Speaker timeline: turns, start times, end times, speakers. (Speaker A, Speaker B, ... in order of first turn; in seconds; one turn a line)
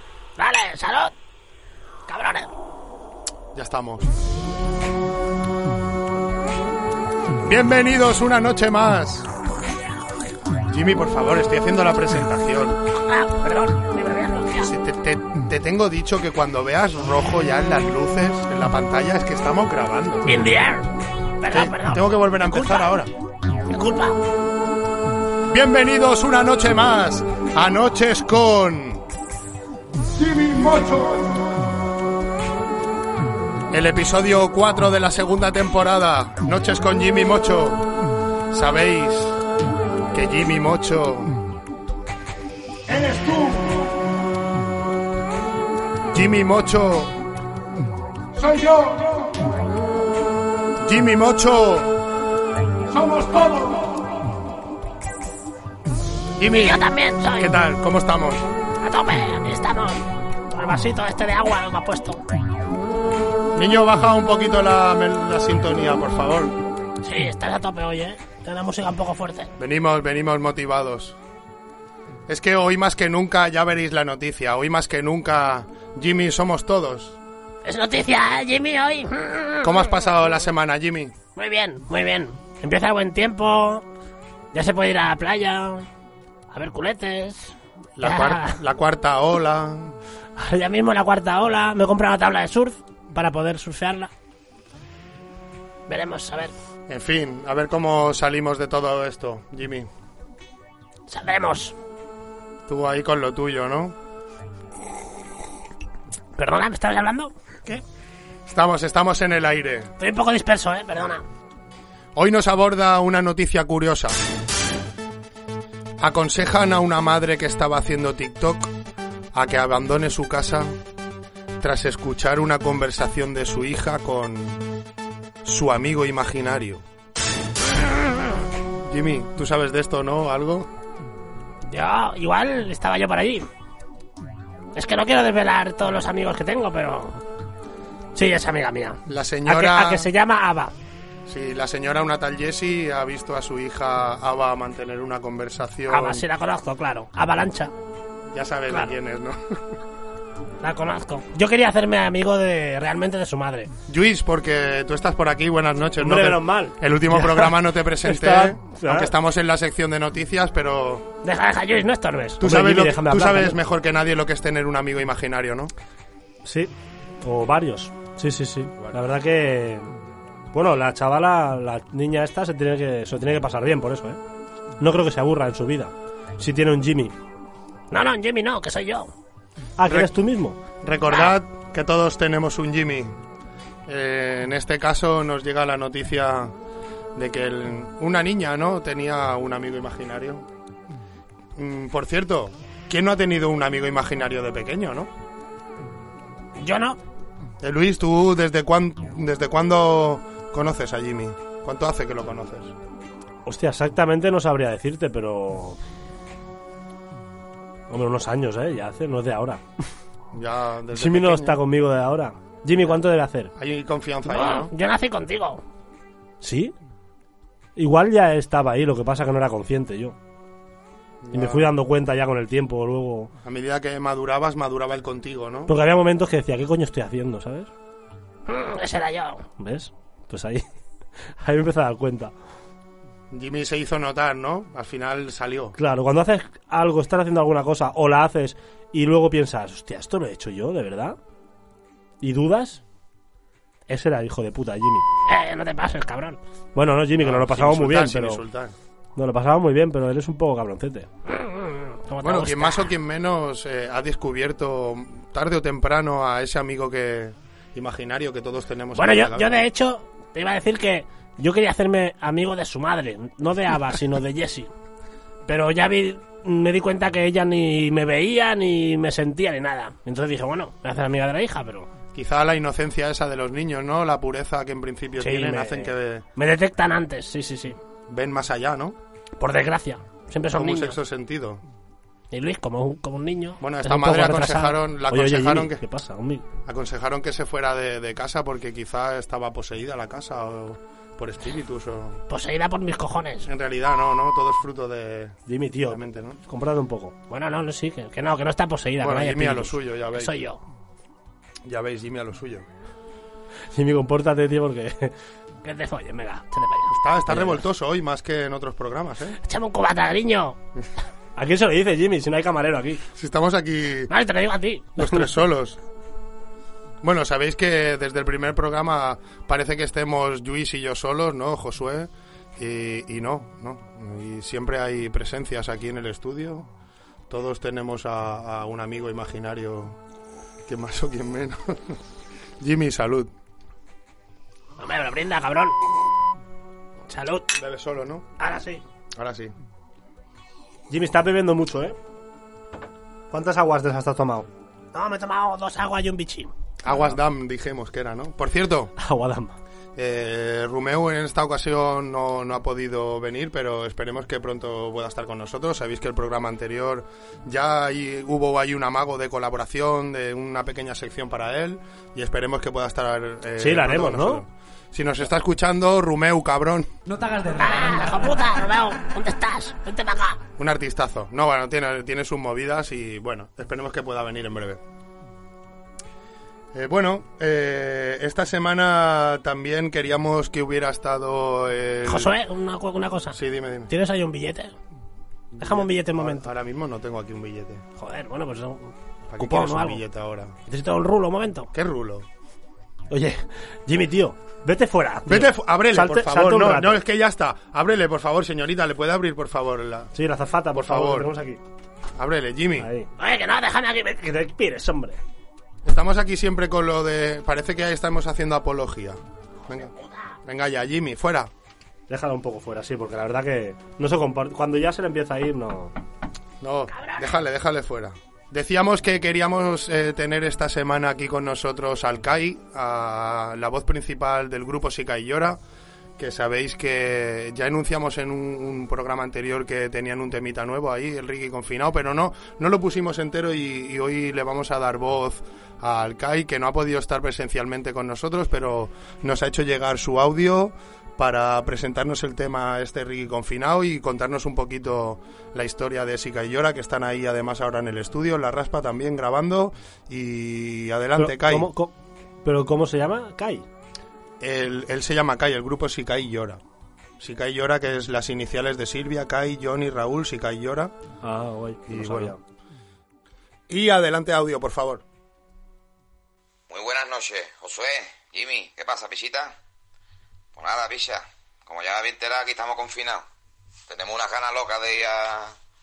Speaker A: 0.4-1.1
Speaker A: 2.1-2.5
Speaker B: 3.5-4.1
Speaker B: 7.4-9.3
Speaker B: 10.7-12.8
Speaker A: 13.1-14.7
Speaker B: 14.6-20.4
Speaker A: 20.3-23.0
Speaker B: 21.5-23.1
Speaker A: 23.7-24.2
Speaker B: 25.5-29.1
Speaker B: 30.2-31.5
Speaker B: 33.7-37.9
Speaker B: 38.5-39.4
Speaker B: 40.1-41.4
Speaker B: 42.9-43.9
Speaker B: 46.1-47.2
Speaker B: 48.4-49.4
Speaker B: 50.8-51.9
Speaker B: 52.9-54.1
Speaker B: 56.4-58.5
Speaker A: 56.5-57.6
Speaker A: 58.8-62.2
Speaker B: 63.5-66.6
Speaker A: 67.0-69.5
Speaker B: 69.6-71.2
Speaker B: 72.3-77.2
Speaker A: 77.7-79.8
Speaker B: 79.6-81.2
Speaker A: 81.4-83.8
Speaker A: 84.5-85.9
Speaker A: 86.5-88.6
Speaker B: 88.0-90.0
Speaker A: 90.4-94.1
Speaker A: 95.9-96.5
Speaker B: 96.9-99.9
Speaker A: 101.1-101.8
Speaker B: 102.7-104.0
Speaker A: 106.4-107.8
Speaker B: 108.5-109.9
Speaker A: 110.0-111.2
Speaker B: 112.2-114.2
Speaker B: 116.0-118.7
Speaker B: 119.3-120.7
Speaker B: 121.6-124.6
Speaker B: 125.5-126.8
Speaker B: 128.8-130.7
Speaker A: 131.7-133.5
Speaker A: 134.8-137.2
Speaker A: 138.2-140.7
Speaker B: 139.1-140.1
Speaker B: 141.3-146.3
Speaker A: 145.9-147.7
Speaker B: 148.3-149.8
Speaker A: 150.6-153.7
Speaker B: 153.9-161.1
Speaker C: 156.0-157.5
Speaker C: 158.0-159.1
Speaker A: 161.2-162.4
Speaker B: 162.4-165.7
Speaker C: 162.4-163.6
Speaker C: 166.4-169.9
Speaker C: 170.5-174.2
Speaker C: 174.8-177.2
Speaker A: 177.9-179.1
Speaker C: 179.8-180.6
Speaker B: 179.9-180.1
Speaker B: 180.8-183.2
Speaker B: 183.9-186.5
Speaker B: 187.2-190.5
Speaker B: 191.6-195.1
Speaker A: 196.6-197.0
Speaker B: 197.6-202.7
Speaker C: 203.5-205.8
Speaker C: 207.9-209.6
Speaker B: 210.3-211.6
Speaker C: 210.9-213.5
Speaker B: 213.6-214.7
Speaker A: 214.3-215.6
Speaker C: 216.4-216.7
Speaker C: 217.8-220.2
Speaker B: 221.2-221.7
Speaker C: 221.3-223.3
Speaker B: 223.4-225.7
Speaker C: 225.7-227.7
Speaker A: 228.5-229.5
Speaker C: 229.6-230.7
Speaker C: 231.4-232.3
Speaker B: 233.3-235.8
Speaker C: 235.8-241.2
Speaker C: 242.2-242.8
Speaker C: 243.9-245.1
Speaker A: 245.3-246.4
Speaker C: 246.8-248.4
Speaker B: 247.2-248.8
Speaker C: 249.2-251.1
Speaker A: 251.3-252.9
Speaker B: 252.2-259.6
Speaker A: 258.9-264.7
Speaker A: 265.5-271.9
Speaker B: 272.1-276.2
Speaker A: 275.2-277.8
Speaker B: 278.1-279.0
Speaker A: 279.4-281.0
Speaker B: 280.5-281.6
Speaker A: 282.3-284.8
Speaker B: 283.6-285.8
Speaker C: 285.1-286.4
Speaker B: 286.7-292.2
Speaker A: 292.3-293.5
Speaker B: 293.4-296.4
Speaker C: 295.5-297.2
Speaker A: 297.3-300.6
Speaker B: 299.0-300.4
Speaker B: 301.6-302.7
Speaker C: 303.7-305.1
Speaker A: 305.6-307.0
Speaker B: 306.9-309.4
Speaker A: 309.4-310.6
Speaker C: 311.4-313.0
Speaker B: 313.2-314.1
Speaker A: 314.1-315.2
Speaker B: 315.0-315.8
Speaker B: 317.0-326.7
Speaker B: 327.3-330.0
Speaker B: 330.7-332.0
Speaker B: 332.6-333.3
Speaker A: 334.8-335.8
Speaker A: 337.1-337.5
Speaker B: 337.6-338.3
Speaker A: 338.4-338.8
Speaker B: 339.1-339.5
Speaker C: 340.9-342.0
Speaker C: 343.3-344.5
Speaker A: 344.9-346.5
Speaker B: 346.8-348.9
Speaker C: 349.0-349.6
Speaker B: 350.0-366.9
Speaker C: 363.6-364.4
Speaker A: 367.3-370.4
Speaker B: 370.6-374.8
Speaker B: 376.7-382.3
Speaker A: 382.1-383.4
Speaker B: 383.3-383.9
Speaker A: 383.9-384.8
Speaker B: 385.5-387.9
Speaker A: 385.6-386.5
Speaker A: 388.0-390.0
Speaker B: 389.3-390.6
Speaker A: 390.7-391.7
Speaker B: 391.7-392.3
Speaker C: 393.1-397.0
Speaker B: 395.3-400.1
Speaker C: 400.1-401.6
Speaker B: 400.7-401.3
Speaker B: 402.2-402.9
Speaker C: 402.8-403.1
Speaker A: 403.2-404.5
Speaker C: 404.5-405.2
Speaker B: 405.8-409.9
Speaker B: 410.4-411.5
Speaker C: 412.1-415.9
Speaker B: 416.6-425.6
Speaker A: 416.9-417.3
Speaker B: 426.2-451.7
Speaker C: 451.2-453.7
Speaker B: 454.4-456.6
Speaker B: 457.2-460.9
Speaker C: 461.2-462.4
Speaker B: 461.9-462.4
Speaker B: 463.7-465.0
Speaker D: 466.7-469.6
Speaker D: 470.5-473.3
Speaker D: 473.9-475.6